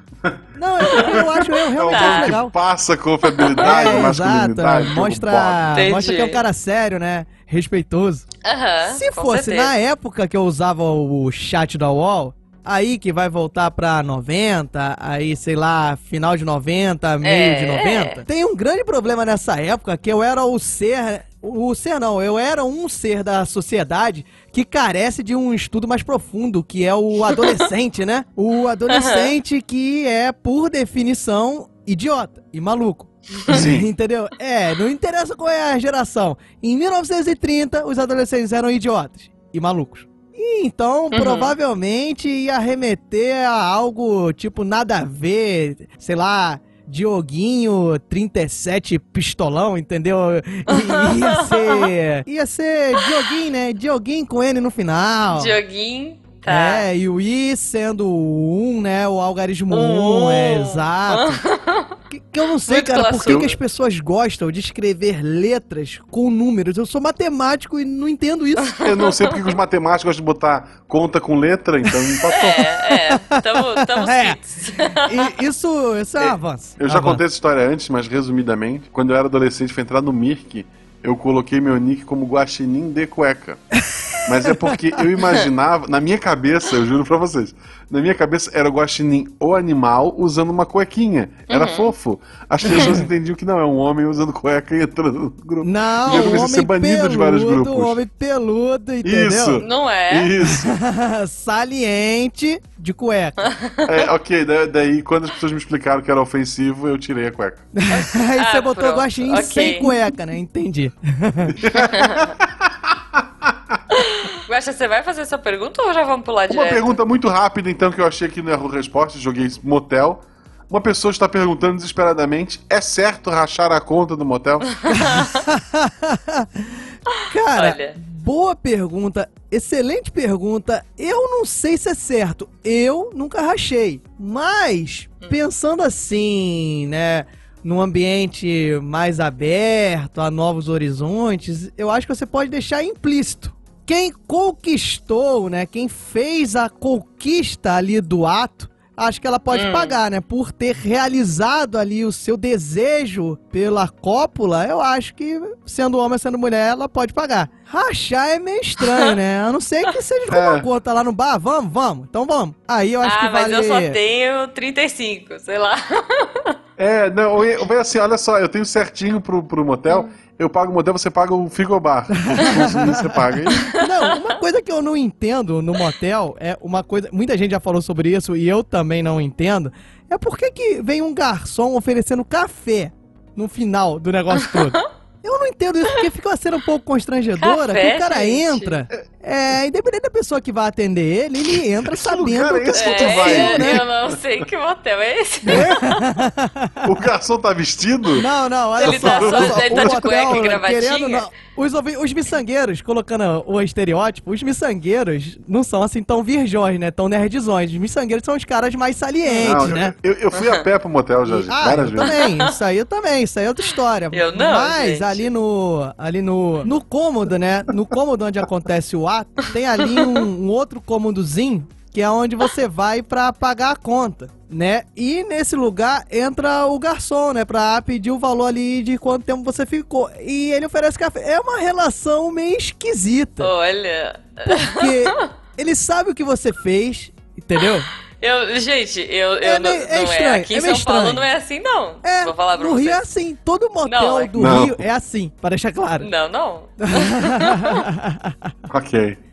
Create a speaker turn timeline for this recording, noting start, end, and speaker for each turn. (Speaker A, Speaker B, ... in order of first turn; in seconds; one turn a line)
Speaker A: 0.6-2.5
Speaker B: 0.9-1.3
Speaker C: 0.9-5.8
Speaker B: 1.9-2.3
Speaker B: 3.3-3.9
Speaker A: 3.6-8.3
Speaker B: 5.7-6.4
Speaker B: 8.4-9.7
Speaker A: 8.9-55.6
Speaker B: 17.2-18.2
Speaker B: 27.3-27.6
Speaker B: 28.9-29.3
Speaker C: 33.5-33.9
Speaker B: 41.1-41.5
Speaker B: 50.7-51.9
Speaker B: 55.3-56.9
Speaker A: 56.5-61.4
Speaker B: 59.7-61.9
Speaker A: 62.1-68.8
Speaker B: 62.7-63.5
Speaker C: 63.3-63.5
Speaker C: 68.8-72.8
Speaker A: 72.0-77.2
Speaker B: 72.3-75.3
Speaker C: 76.2-83.6
Speaker A: 83.8-85.0
Speaker C: 84.2-98.0
Speaker B: 91.5-91.9
Speaker A: 92.7-93.0
Speaker A: 95.6-99.7
Speaker B: 96.1-96.5
Speaker C: 99.0-100.8
Speaker B: 99.6-100.3
Speaker A: 100.4-103.5
Speaker B: 103.4-103.9
Speaker C: 103.8-107.7
Speaker A: 107.8-111.6
Speaker B: 107.9-109.9
Speaker C: 111.5-113.8
Speaker B: 111.8-112.3
Speaker B: 113.9-117.0
Speaker C: 116.5-124.7
Speaker B: 124.9-125.4
Speaker A: 124.9-164.0
Speaker B: 127.6-128.0
Speaker B: 149.5-150.0
Speaker B: 158.8-159.1
Speaker C: 160.3-160.7
Speaker B: 163.0-166.6
Speaker C: 166.8-173.7
Speaker A: 172.3-193.8
Speaker B: 173.5-174.2
Speaker B: 187.4-188.8
Speaker C: 191.8-194.4
Speaker B: 192.8-196.0
Speaker A: 195.5-196.9
Speaker C: 196.8-198.3
Speaker A: 198.2-209.9
Speaker B: 198.8-201.3
Speaker C: 198.8-200.5
Speaker C: 209.4-212.2
Speaker B: 210.4-210.6
Speaker A: 211.3-233.5
Speaker B: 212.0-212.6
Speaker B: 214.1-215.3
Speaker B: 219.8-220.2
Speaker B: 233.4-235.3
Speaker A: 234.4-237.9
Speaker B: 238.2-243.0
Speaker A: 239.4-241.3
Speaker A: 242.0-246.1
Speaker B: 243.9-244.3
Speaker C: 244.4-244.8
Speaker B: 246.0-247.9
Speaker A: 246.8-248.5
Speaker C: 248.7-249.2